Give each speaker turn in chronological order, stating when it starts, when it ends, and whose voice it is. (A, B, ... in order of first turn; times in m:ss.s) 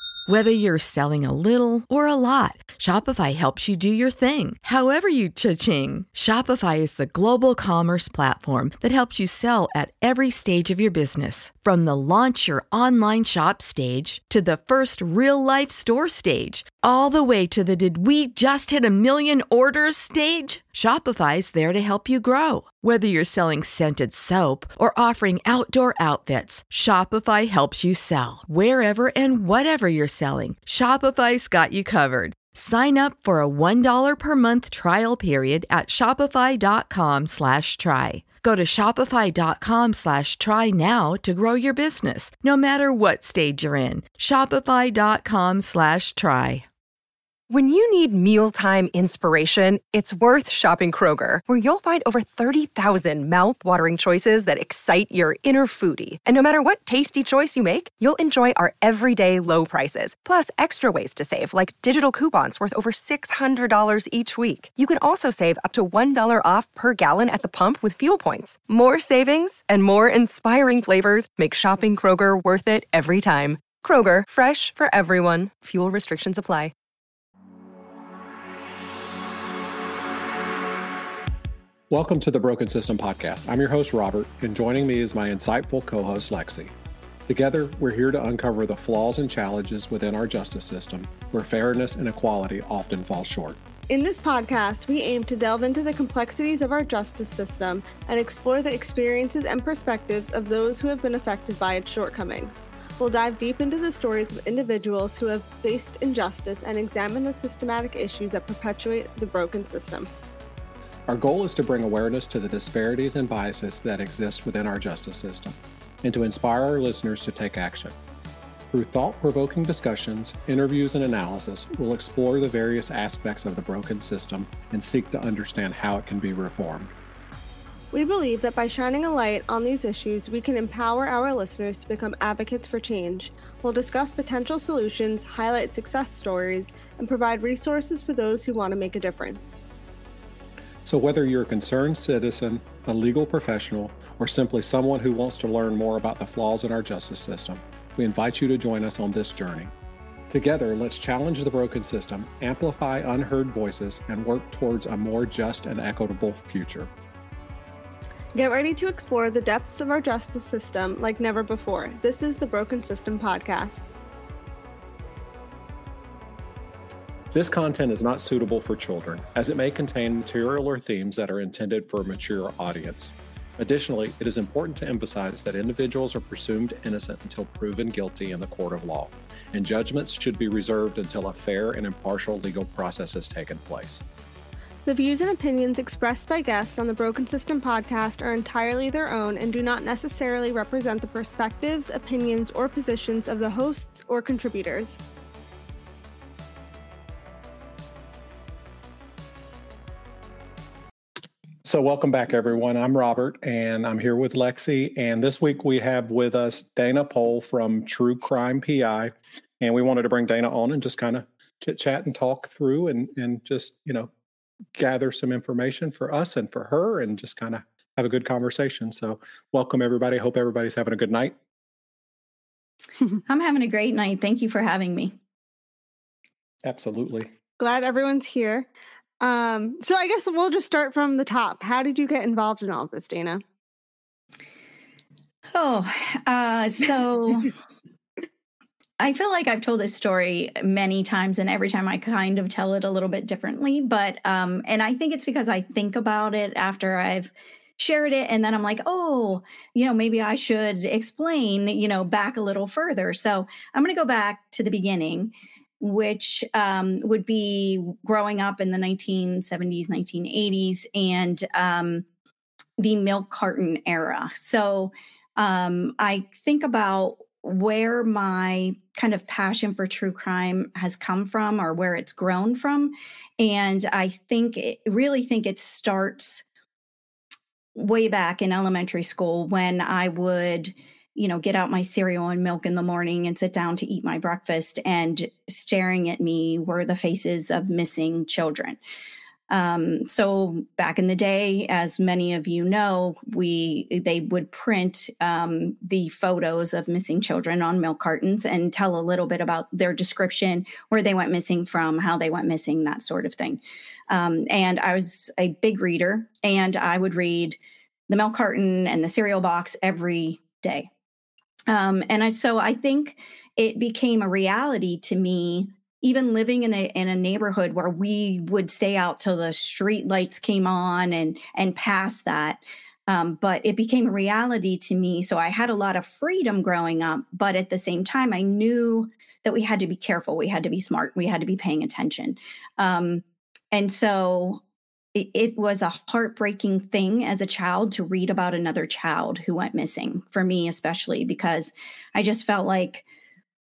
0:00.3-0:46.7 A
0:47.5-1:16.7 B
1:21.9-1:26.7 C
1:27.2-1:33.6 C
1:33.9-1:50.1 D
1:51.1-1:58.0 C
1:58.7-2:06.9 C
2:07.9-2:19.6 D
2:20.8-2:29.7 C
2:30.3-2:36.9 C
2:38.4-2:43.8 D
2:47.3-3:04.0 C
3:04.9-3:15.0 D
3:21.6-3:34.1 C
3:34.8-3:41.4 C
3:43.3-3:45.2 E
3:46.6-3:47.3 C
3:47.6-3:48.7 D
3:49.2-3:53.4 D
3:55.5-3:57.5 E
3:59.0-4:22.0 E
4:22.8-4:36.4 E
4:37.8-4:48.8 E
4:49.5-5:07.6 E
5:08.1-5:10.9 E
5:11.7-5:34.6 E
5:35.2-5:43.0 E